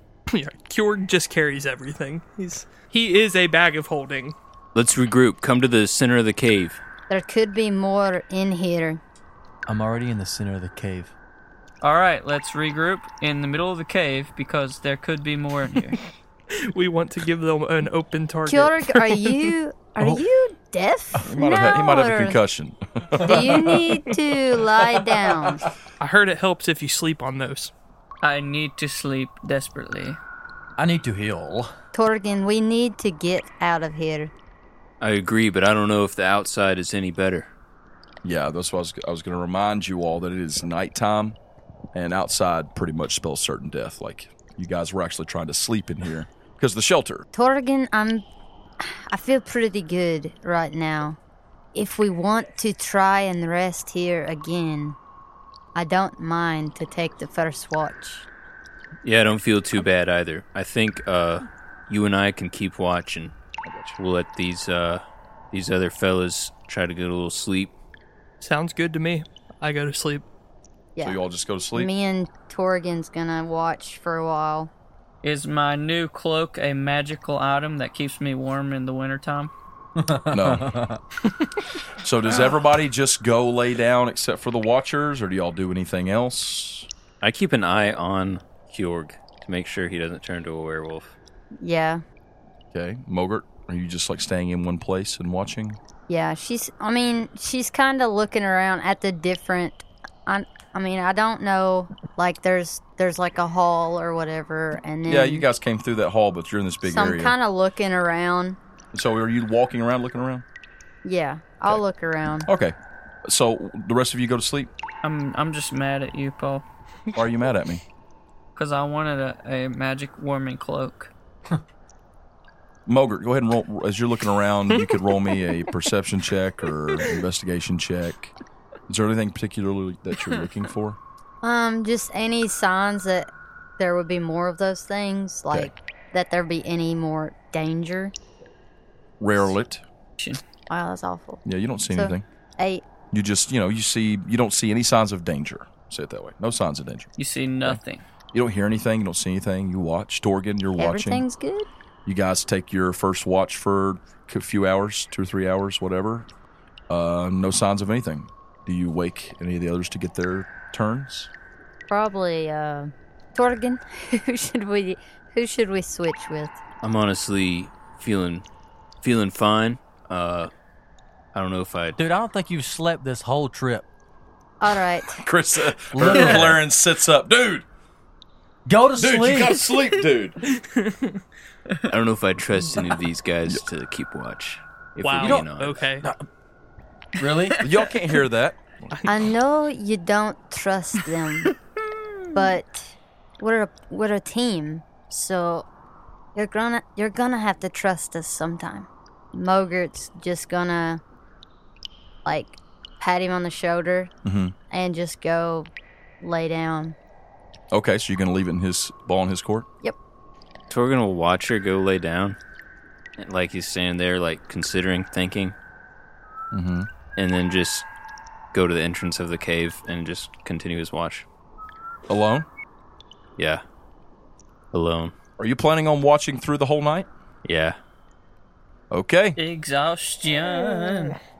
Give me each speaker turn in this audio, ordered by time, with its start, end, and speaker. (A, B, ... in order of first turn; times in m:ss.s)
0:00.3-0:04.4 A
0:04.7-0:06.8 B
0:07.1-0:09.0 C
0:09.7-0:11.1 D
0:11.8-0:16.0 E
0:16.5-0:19.5 A
0:18.5-0:22.4 C
0:21.2-0:23.7 F
0:23.2-0:24.0 D
0:23.2-0:25.6 C
0:24.8-0:25.6 D
0:26.0-0:27.7 A
0:28.2-0:30.2 E
0:30.8-0:31.7 D
0:31.9-0:34.3 C
0:35.0-0:37.5 B
0:38.2-0:41.4 F
0:41.9-0:47.2 F
0:47.3-0:48.2 C
0:48.8-0:51.2 C
0:51.7-0:55.0 C
0:55.7-0:58.3 C
0:59.0-1:03.3 B
1:03.6-1:04.0 F
1:04.0-1:07.7 B
1:08.4-1:10.2 A
1:11.0-1:11.9 F
1:11.7-1:14.7 C
1:15.2-1:19.5 E
1:20.0-1:21.0 D
1:20.3-1:20.7 F
1:22.0-1:26.9 F
1:27.2-1:31.1 B
1:31.6-1:32.0 C
1:32.7-1:35.8 F
1:36.1-1:45.4 C
1:45.0-1:47.3 F
1:46.8-1:48.6 C
1:48.9-1:50.4 F
1:51.0-1:52.5 C
1:52.4-1:54.7 F
1:55.0-1:56.6 E
1:57.1-1:57.8 F
1:58.5-2:01.1 E
2:02.8-2:08.3 F
2:08.9-2:11.0 F
2:11.4-2:18.1 C
2:19.2-2:19.8 F
2:20.7-2:22.8 C
2:21.4-2:22.2 F
2:23.1-2:27.1 F
2:27.2-2:28.0 E
2:28.3-2:31.2 F
2:30.8-2:31.7 C
2:32.0-2:36.3 F
2:36.9-2:41.3 F
2:41.9-2:46.6 C
2:46.8-2:48.4 B
2:49.0-2:50.5 B
2:51.3-2:52.0 B
2:52.0-2:53.8 D
2:54.6-2:55.2 C
2:55.2-2:57.6 F
2:55.9-2:56.6 D
2:58.6-2:59.6 D
2:59.0-3:00.4 F
3:00.5-3:01.2 A
3:01.9-3:05.9 B
3:05.0-3:06.1 A
3:05.2-3:05.5 D
3:07.2-3:07.6 D
3:07.6-3:09.0 F
3:08.9-3:09.2 A
3:09.0-3:11.5 C
3:12.3-3:15.6 C
3:16.3-3:21.0 C
3:22.2-3:24.1 C
3:24.2-3:24.5 F
3:24.7-3:25.7 C
3:26.2-3:27.0 C
3:27.7-3:29.6 F
3:30.7-3:32.4 B
3:33.2-3:35.5 B
3:36.5-3:36.9 F
3:37.2-3:37.9 B
3:38.5-3:41.2 B
3:42.1-3:42.5 F
3:43.4-3:43.6 B
3:44.7-3:45.1 B
3:45.4-3:47.1 F
3:47.4-3:47.8 B
3:48.9-3:49.4 F
3:49.4-3:51.2 E
3:50.4-3:51.1 A